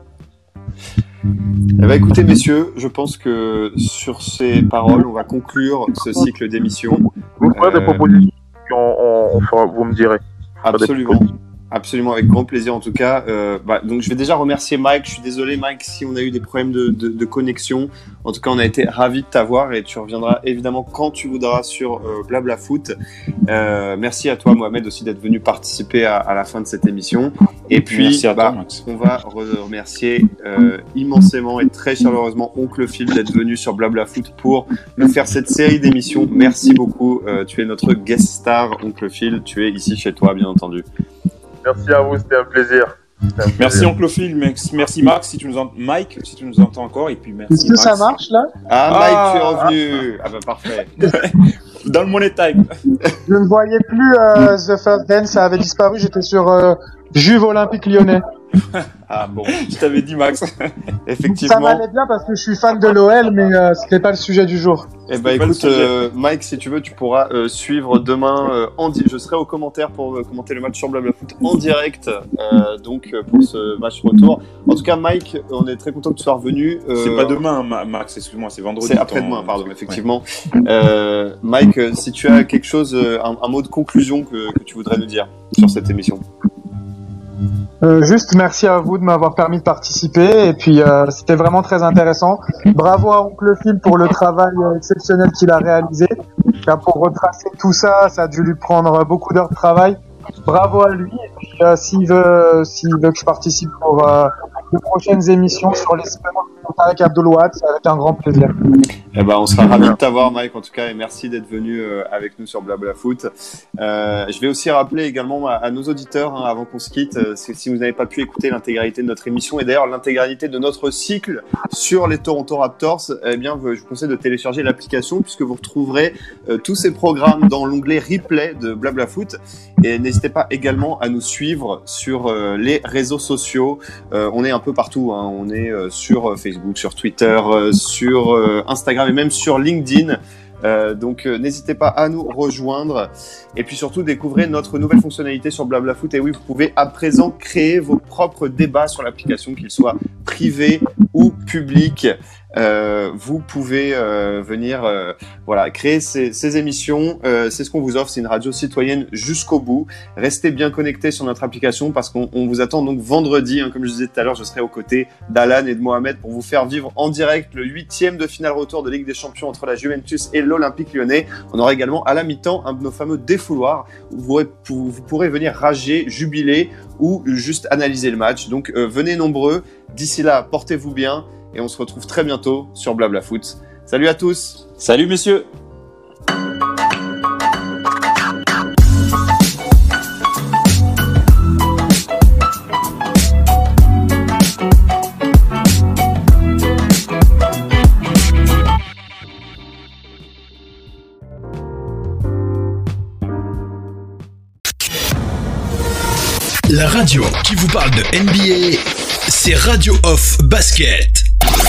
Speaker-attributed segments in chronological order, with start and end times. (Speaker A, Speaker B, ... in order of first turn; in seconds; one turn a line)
Speaker A: 1.8-8.1
Speaker B: 7.4-10.2
Speaker A: 10.6-22.9
Speaker B: 10.7-11.2
Speaker A: 23.4-40.9
Speaker C: 27.9-28.8
Speaker B: 41.6-43.9
Speaker C: 43.6-48.2
Speaker D: 47.5-48.5
Speaker A: 48.7-50.9
Speaker C: 48.9-49.7
Speaker C: 51.0-52.8
Speaker D: 53.2-58.2
Speaker A: 59.1-59.8
Speaker C: 59.5-60.7
Speaker A: 61.1-61.8
Speaker D: 61.3-64.9
Speaker A: 65.1-77.4
Speaker C: 65.2-65.9
Speaker C: 77.0-80.0
Speaker A: 78.8-86.2
Speaker D: 87.8-96.1
Speaker D: 96.6-108.6
Speaker A: 109.1-184.7
Speaker C: 184.8-185.5
Speaker E: 206.7-211.3